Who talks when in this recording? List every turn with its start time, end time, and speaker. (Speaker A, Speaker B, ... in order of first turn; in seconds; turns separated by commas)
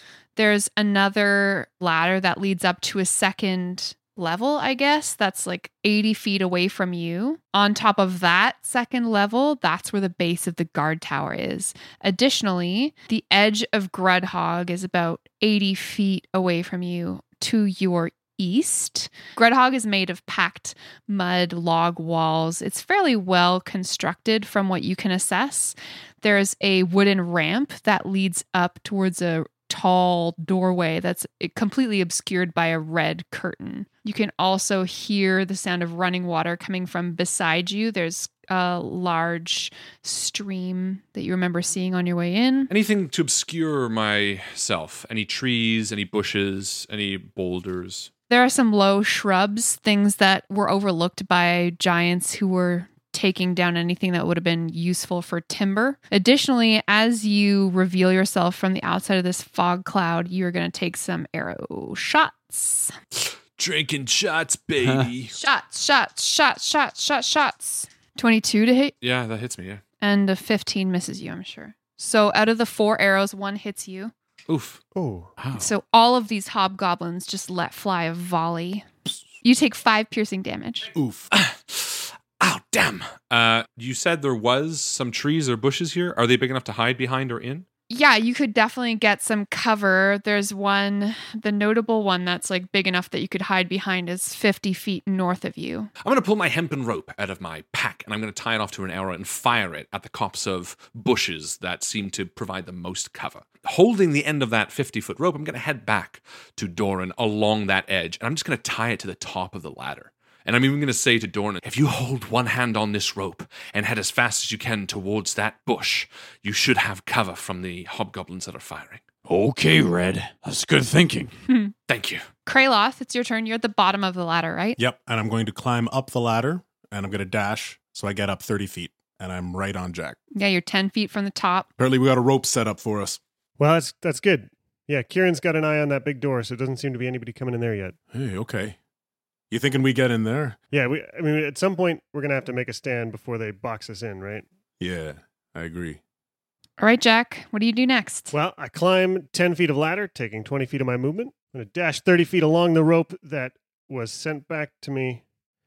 Speaker A: 0.4-42.7, Speaker B: 42.7-48.1, Speaker A: 48.3-63.0, Speaker B: 63.2-65.3, Speaker A: 65.3-69.0, Speaker B: 69.0-69.8, Speaker A: 70.0-74.1, Speaker B: 74.5-74.8, Speaker C: 75.0-75.3, Speaker D: 75.4-75.7, Speaker A: 75.5-78.9, Speaker A: 79.4-80.9, Speaker E: 80.9-81.3, Speaker B: 81.3-87.7, Speaker A: 87.9-95.9, Speaker B: 96.0-119.0, Speaker D: 119.3-121.3, Speaker A: 121.5-121.7, Speaker B: 121.9-122.3, Speaker A: 122.5-124.8, Speaker E: 124.8-130.2, Speaker A: 130.3-131.7, Speaker E: 131.8-133.2, Speaker C: 133.6-138.0, Speaker E: 138.1-138.8, Speaker E: 139.5-140.6, Speaker C: 140.7-144.5, Speaker E: 144.8-146.0, Speaker A: 146.8-148.3, Speaker C: 148.3-155.2